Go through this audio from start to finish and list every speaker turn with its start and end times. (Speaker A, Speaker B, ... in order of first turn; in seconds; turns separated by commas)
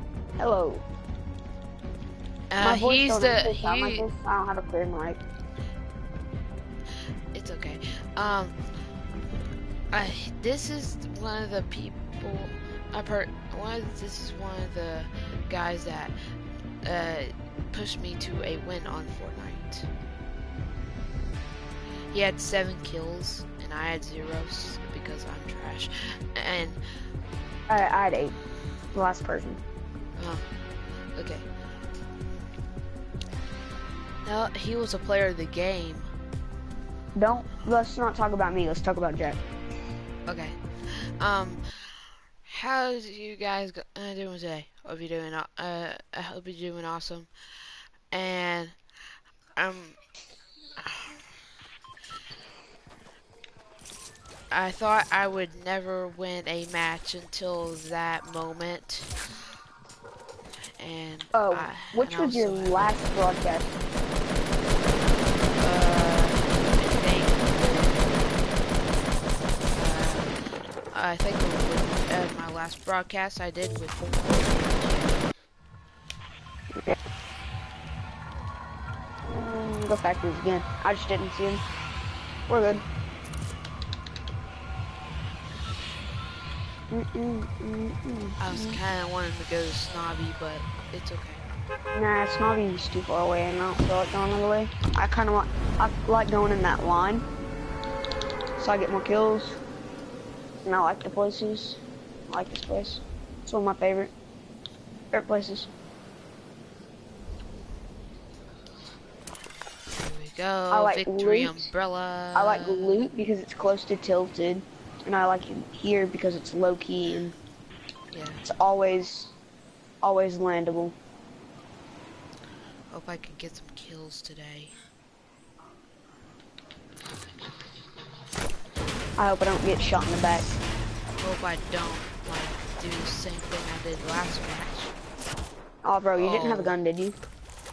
Speaker A: 0.4-0.8, Speaker B: 2.5-4.0, Speaker A: 2.6-5.2, Speaker B: 7.3-8.6, Speaker B: 9.9-16.1, Speaker B: 16.8-19.9, Speaker B: 22.1-26.8, Speaker A: 27.7-28.4, Speaker A: 28.9-29.6, Speaker B: 30.2-30.4, Speaker B: 31.1-31.4, Speaker B: 34.2-36.1, Speaker A: 37.1-39.4, Speaker B: 40.2-47.3, Speaker B: 48.1-48.8, Speaker B: 49.5-50.0, Speaker B: 50.8-51.2, Speaker B: 54.5-59.1, Speaker B: 60.8-63.0, Speaker A: 61.3-63.7, Speaker B: 65.6-68.2, Speaker B: 69.7-70.4, Speaker B: 70.9-75.2, Speaker A: 79.3-81.6, Speaker A: 82.5-82.8, Speaker A: 86.9-88.8, Speaker B: 88.4-91.4, Speaker A: 91.9-97.2, Speaker A: 98.6-99.6, Speaker A: 100.6-104.1, Speaker A: 105.1-105.7, Speaker B: 109.9-113.1, Speaker A: 110.7-111.6, Speaker A: 112.3-117.3, Speaker B: 118.1-118.4, Speaker A: 118.4-119.3, Speaker A: 120.0-121.0, Speaker B: 122.9-124.7, Speaker A: 129.2-130.5, Speaker B: 131.2-134.9, Speaker A: 135.8-137.2, Speaker B: 136.2-136.8